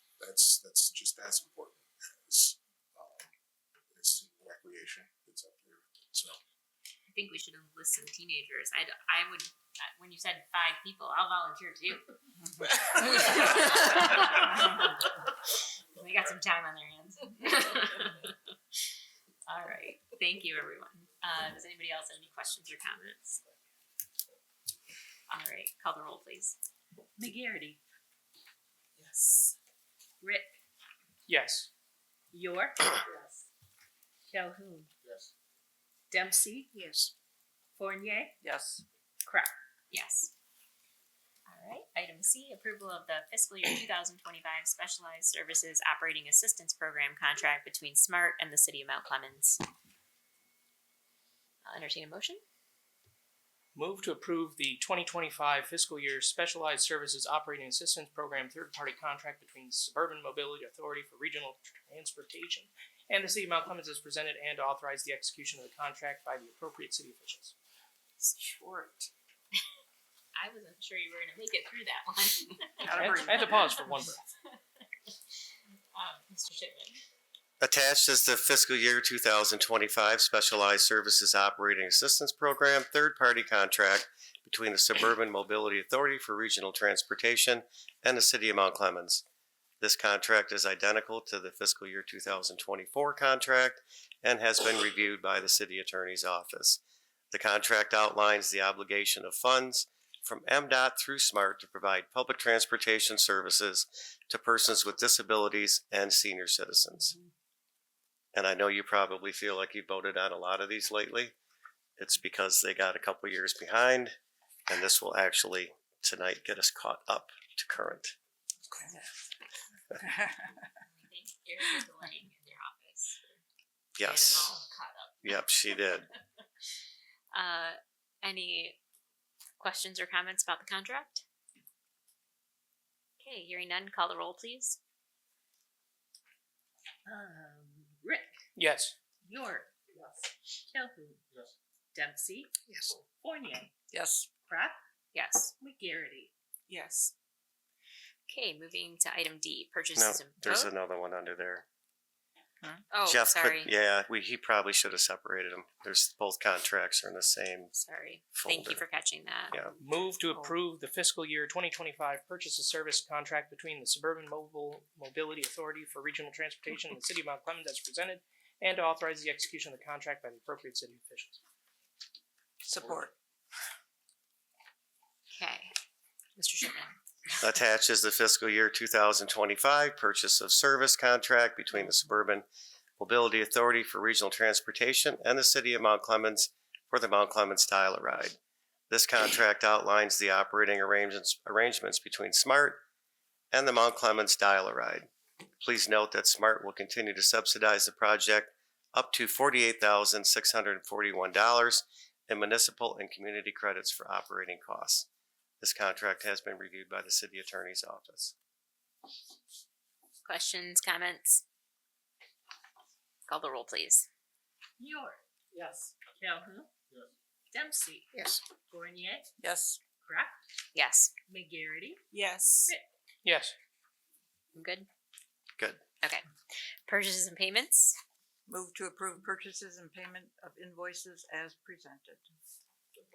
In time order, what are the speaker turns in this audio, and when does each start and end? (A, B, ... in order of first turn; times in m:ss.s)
0:00.2-0:03.3 A
0:03.9-0:06.4 A
0:07.1-0:12.0 B
0:12.7-0:15.1 B
0:15.9-0:18.4 B
0:19.5-0:23.4 B
0:25.3-0:26.6 B
0:27.2-0:27.8 C
0:30.2-0:30.6 C
0:31.3-0:31.7 D
0:32.3-0:33.3 C
0:34.3-0:34.9 C
0:36.1-0:36.8 C
0:37.8-0:38.4 C
0:38.4-0:38.8 E
0:39.2-0:39.6 C
0:39.9-0:40.3 B
0:41.5-0:49.6 B
0:51.6-0:52.4 B
0:53.8-1:07.5 D
1:08.2-1:09.1 E
1:10.3-1:13.9 B
1:12.8-1:14.1 E
1:12.8-1:14.2 D
1:15.9-1:17.0 B
1:17.6-1:29.2 F
1:29.8-1:36.8 F
1:37.3-1:47.2 F
1:48.3-1:51.4 F
1:52.0-1:54.2 F
1:54.7-1:58.2 F
2:00.0-2:00.3 E
2:00.7-2:03.4 B
2:04.0-2:04.5 F
2:04.0-2:06.0 B
2:05.2-2:06.1 F
2:07.3-2:08.8 B
2:09.6-2:11.2 B
2:13.2-2:14.8 B
2:17.0-2:18.3 C
2:18.6-2:19.0 D
2:19.2-2:21.2 C
2:21.9-2:23.7 C
2:23.9-2:24.3 E
2:24.5-2:24.8 C
2:25.1-2:25.5 B
2:25.6-2:26.3 C
2:26.7-2:27.1 E
2:28.3-2:30.7 B
2:30.0-2:31.6 F
2:32.9-2:33.7 B
2:33.1-2:37.7 F
2:37.7-2:39.5 B
2:38.4-2:38.8 F
2:39.8-2:51.4 D
2:52.6-2:53.1 E
2:55.3-2:55.7 B
2:56.4-2:57.0 B
2:57.4-3:02.5 F
3:03.0-3:08.4 F
3:08.9-3:12.8 F
3:13.5-3:25.1 F
3:25.6-3:28.3 F
3:30.2-3:31.4 B
3:33.3-3:34.1 B
3:34.8-3:35.2 C
3:36.1-3:36.7 C
3:37.5-3:39.3 C
3:39.4-3:39.8 E
3:40.0-3:40.4 C
3:40.7-3:41.1 B
3:41.3-3:42.1 C
3:42.1-3:42.7 E
3:43.2-3:43.6 D
3:44.6-3:44.9 B
3:45.6-3:45.8 F
3:46.9-3:48.0 B
3:48.5-3:52.2 E